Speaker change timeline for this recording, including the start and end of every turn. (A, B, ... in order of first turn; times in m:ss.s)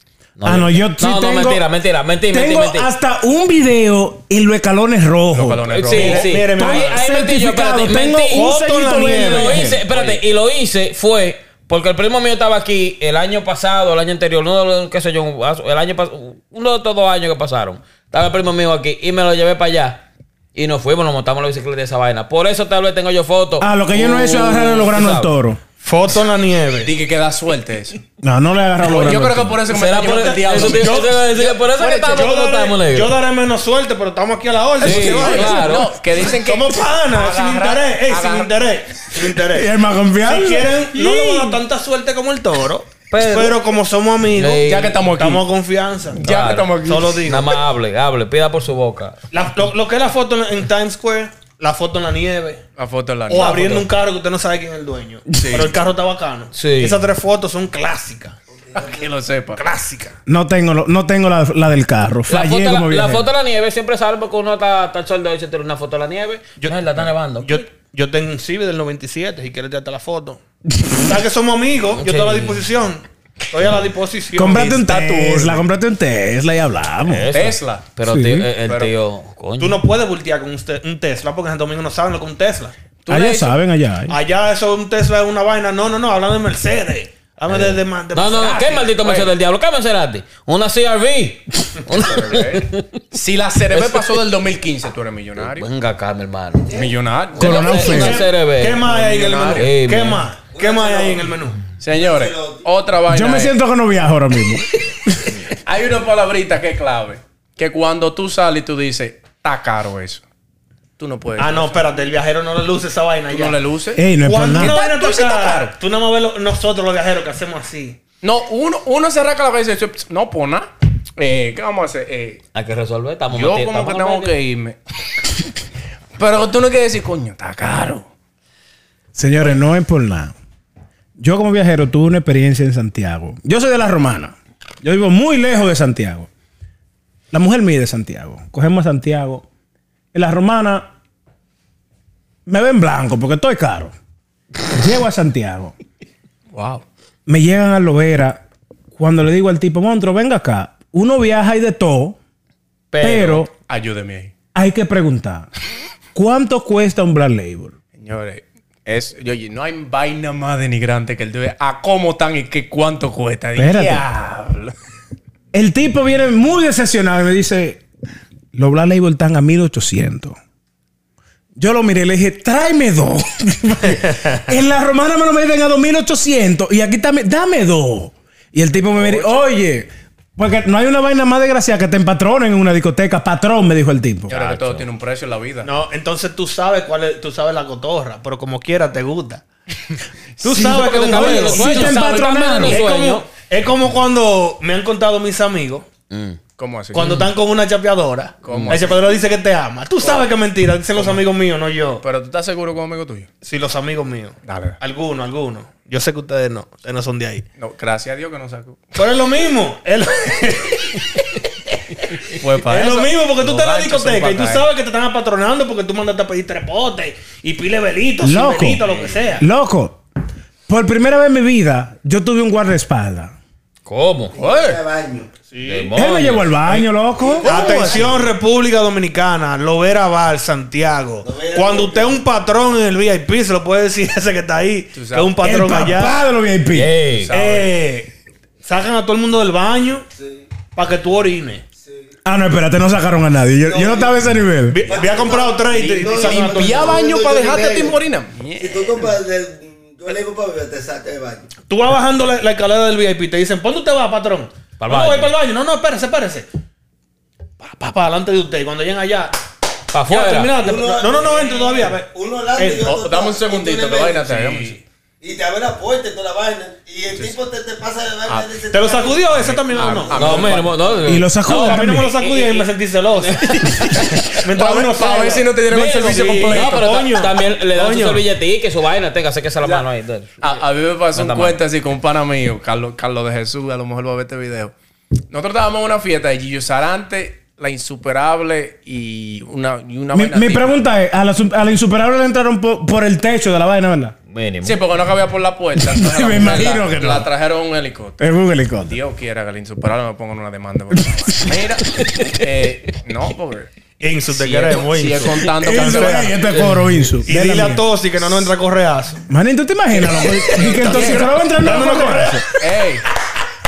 0:00.4-0:02.9 A
0:00.4-0:01.6 B
0:02.3-0:05.7 B
0:05.3-0:06.4 C
0:05.7-0:08.5 A
0:05.9-0:07.0 D
0:06.4-0:09.8 B
0:08.3-0:09.6 D
0:09.1-0:25.3 A
0:09.9-0:10.2 C
0:23.6-0:25.6 B
0:25.8-0:26.9 D
0:26.8-0:28.0 C
0:28.2-0:29.6 B
0:28.8-0:32.2 C
0:29.7-0:33.2 A
0:30.0-0:31.2 D
0:32.0-0:35.7 D
0:34.8-0:38.5 C
0:34.8-0:35.9 A
0:36.2-0:39.7 D
0:39.4-0:41.6 B
0:40.2-0:46.2 D
0:43.1-0:43.6 A
0:44.3-0:45.0 A
0:44.6-0:45.4 C
0:46.2-0:47.3 C
0:46.2-0:49.2 A
0:46.8-0:47.6 D
0:49.3-0:52.6 D
0:52.8-0:53.9 C
0:53.3-0:58.4 D
0:55.4-0:55.8 C
0:56.5-0:57.0 A
0:58.6-0:59.0 E
0:58.8-0:59.6 C
0:59.6-1:00.2 D
1:00.3-1:03.3 B
1:02.3-1:07.6 A
1:06.6-1:10.4 D
1:10.9-1:14.8 D
1:11.9-1:12.6 A
1:14.4-1:17.3 B
1:14.6-1:15.6 C
1:17.0-1:19.8 A
1:17.3-1:17.8 C
1:18.0-1:18.5 B
1:18.6-1:18.9 C
1:19.6-1:22.7 D
1:23.0-1:23.6 C
1:23.1-1:24.2 B
1:24.1-1:28.9 D
1:27.5-1:33.0 A
1:28.9-1:29.3 C
1:31.9-1:35.7 C
1:33.7-1:34.1 A
1:35.4-1:36.8 A
1:36.7-1:36.9 E
1:36.7-1:38.2 C
1:37.4-1:38.3 B
1:37.4-1:38.9 A
1:37.5-1:41.6 D
1:38.8-1:39.7 C
1:39.5-1:40.2 A
1:40.5-1:41.3 E
1:41.8-1:43.6 C
1:41.9-1:42.7 E
1:43.1-1:45.4 B
1:45.6-1:50.2 C
1:51.0-1:52.0 C
1:51.4-1:53.6 D
1:53.3-1:55.7 C
1:54.0-1:54.8 B
1:54.2-1:58.0 D
1:58.2-2:02.4 C
2:02.5-2:04.3 A
2:03.3-2:04.8 C
2:06.2-2:08.1 C
2:09.2-2:10.3 B
2:11.2-2:16.3 B
2:17.3-2:19.4 B
2:20.1-2:20.9 B
2:22.5-2:24.0 B
2:24.7-2:25.7 B
2:26.5-2:26.8 C
2:27.3-2:28.4 B
2:29.0-2:32.2 B
2:32.9-2:33.4 A
2:33.0-2:33.5 B
2:33.5-2:34.3 C
2:34.6-2:35.5 B
2:36.1-2:37.8 B
2:38.0-2:44.7 C
2:43.6-2:44.1 B
2:45.5-2:47.8 B
2:48.5-2:50.4 B
2:51.6-3:04.3 B
3:04.3-3:05.7 C
3:04.3-3:04.9 A
3:05.6-3:09.4 D
3:10.4-3:11.7 D
3:10.4-3:12.6 C
3:10.5-3:13.3 A
3:10.9-3:12.8 B
3:12.6-3:15.9 D
3:16.1-3:16.4 A
3:16.6-3:17.3 C
3:16.9-3:22.0 D
3:17.0-3:17.2 A
3:18.4-3:19.0 C
3:18.5-3:18.9 A
3:20.0-3:20.2 C
3:21.0-3:21.2 C
3:22.0-3:23.3 C
3:23.4-3:27.4 D
3:24.4-3:24.8 C
3:27.6-3:28.8 C
3:29.0-3:31.2 D
3:32.2-3:34.7 C
3:32.3-3:39.4 D
3:38.2-3:38.8 B
3:39.4-3:40.0 B
3:40.7-3:43.3 B
3:43.9-3:44.4 A
3:44.4-3:45.3 E
3:44.4-3:44.8 C
3:45.5-3:45.9 D
3:45.6-3:46.6 A
3:45.9-3:47.5 B
3:47.4-3:48.1 E
3:47.4-3:48.3 C
3:47.4-3:56.2 D
3:51.2-3:52.2 E
3:54.9-3:55.4 C
3:55.4-3:57.0 B
3:56.7-3:57.3 A
3:57.1-3:57.8 C
3:57.3-3:58.1 D
3:58.6-4:00.1 D
4:00.2-4:00.5 E
4:00.7-4:01.6 D
4:01.8-4:02.1 E
4:02.2-4:04.8 B
4:03.6-4:04.2 E
4:04.7-4:07.1 D
4:04.8-4:08.0 E
4:05.7-4:09.1 C
4:08.6-4:11.5 E
4:11.7-4:16.5 D
4:14.8-4:15.3 A
4:17.6-4:19.4 D
4:19.9-4:20.6 A
4:20.1-4:23.0 D
4:20.6-4:24.4 E
4:22.8-4:24.8 C
4:24.3-4:24.7 D
4:25.2-4:30.2 E
4:28.3-4:28.5 C
4:28.7-4:30.7 D
4:29.3-4:31.0 C
4:30.2-4:34.3 A
4:31.1-4:32.1 B
4:31.5-4:38.3 D
4:34.0-4:37.2 C
4:35.7-4:40.6 A
4:40.4-4:44.7 C
4:41.1-4:41.6 A
4:45.3-4:50.8 C
4:50.1-4:54.2 B
4:54.3-4:54.8 A
4:54.6-4:58.3 C
4:55.8-4:57.3 B
4:58.2-4:59.0 B
4:58.8-5:03.7 C
5:00.9-5:01.6 B
5:04.0-5:06.3 D
5:04.3-5:06.8 C
5:05.5-5:07.8 B
5:07.3-5:09.2 D
5:09.3-5:12.4 B
5:10.4-5:13.1 C
5:10.6-5:12.5 D